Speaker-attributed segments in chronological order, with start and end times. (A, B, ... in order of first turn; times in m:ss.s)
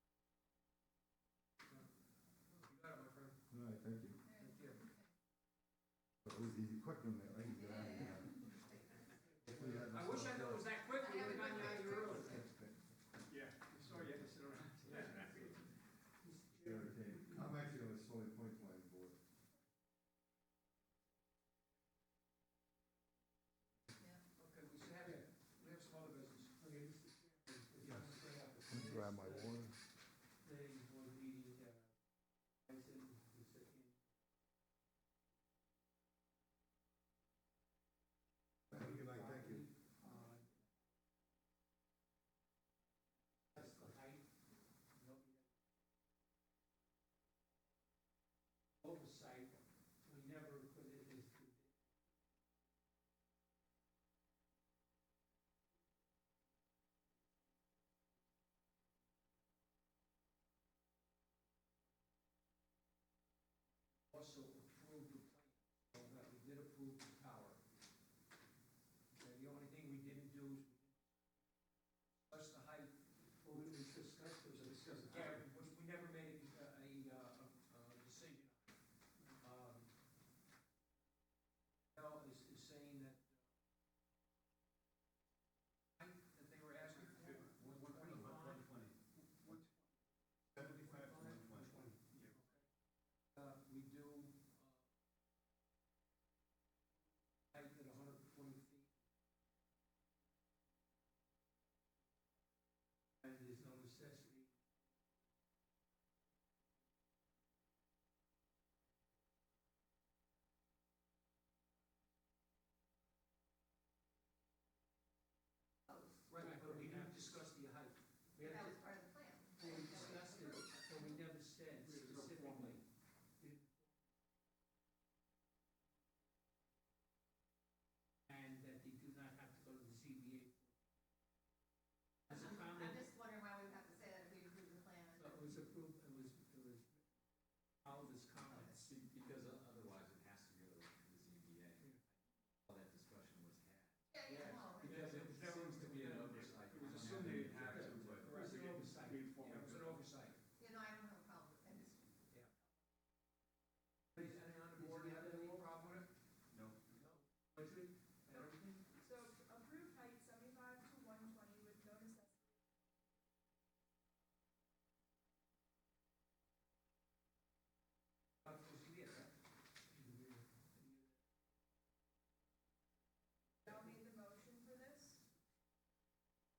0:02.6-0:03.4 A
0:03.5-0:04.2 B
0:04.2-0:05.1 C
0:04.4-0:04.8 A
0:06.2-0:08.5 B
0:07.5-0:09.6 C
0:09.4-0:10.8 B
0:09.6-0:12.4 A
0:10.9-0:12.5 C
0:12.2-0:12.8 B
0:13.3-0:15.6 D
0:14.8-0:15.6 A
0:16.2-0:17.4 E
0:16.5-0:19.2 B
0:24.3-0:26.6 A
0:25.0-0:25.2 E
0:26.6-0:29.6 E
0:27.8-0:28.1 B
0:28.7-0:29.8 B
0:30.4-0:31.9 E
0:32.6-0:34.0 E
0:38.7-0:39.6 B
0:38.7-0:40.6 E
0:43.5-0:44.3 E
0:44.9-0:45.5 E
0:48.8-0:51.7 E
1:04.1-1:07.6 A
1:09.1-1:11.0 A
1:12.2-1:12.9 A
1:13.4-1:14.9 E
1:14.5-1:15.4 D
1:15.0-1:18.7 A
1:19.4-1:19.9 A
1:21.9-1:23.4 A
1:26.0-1:28.7 A
1:26.9-1:29.6 D
1:30.5-1:32.4 D
1:30.6-1:32.0 E
1:32.2-1:32.6 A
1:33.3-1:34.7 A
1:37.5-1:38.9 A
1:43.2-1:44.5 E
1:55.9-1:56.2 C
1:56.3-1:58.0 A
1:56.3-1:57.4 E
1:58.4-1:59.0 E
1:58.4-2:01.2 C
1:59.6-2:02.8 E
2:01.8-2:02.8 D
2:02.0-2:02.7 A
2:03.4-2:03.9 E
2:08.3-2:10.7 E
2:12.3-2:13.1 E
2:12.3-2:15.4 C
2:15.1-2:17.0 E
2:17.8-2:18.9 E
2:18.5-2:18.8 C
2:18.8-2:28.5 F
2:24.1-2:25.1 C
2:24.2-2:27.7 A
2:26.2-2:30.0 D
2:27.6-2:29.7 E
2:29.3-2:30.4 A
2:30.6-2:32.6 C
2:34.1-2:36.1 A
2:34.2-2:35.7 E
2:36.5-2:37.1 D
2:36.9-2:37.2 A
2:37.4-2:38.8 E
2:38.3-2:42.6 G
2:48.4-2:49.3 A
2:50.0-2:51.1 E
2:53.6-2:55.2 G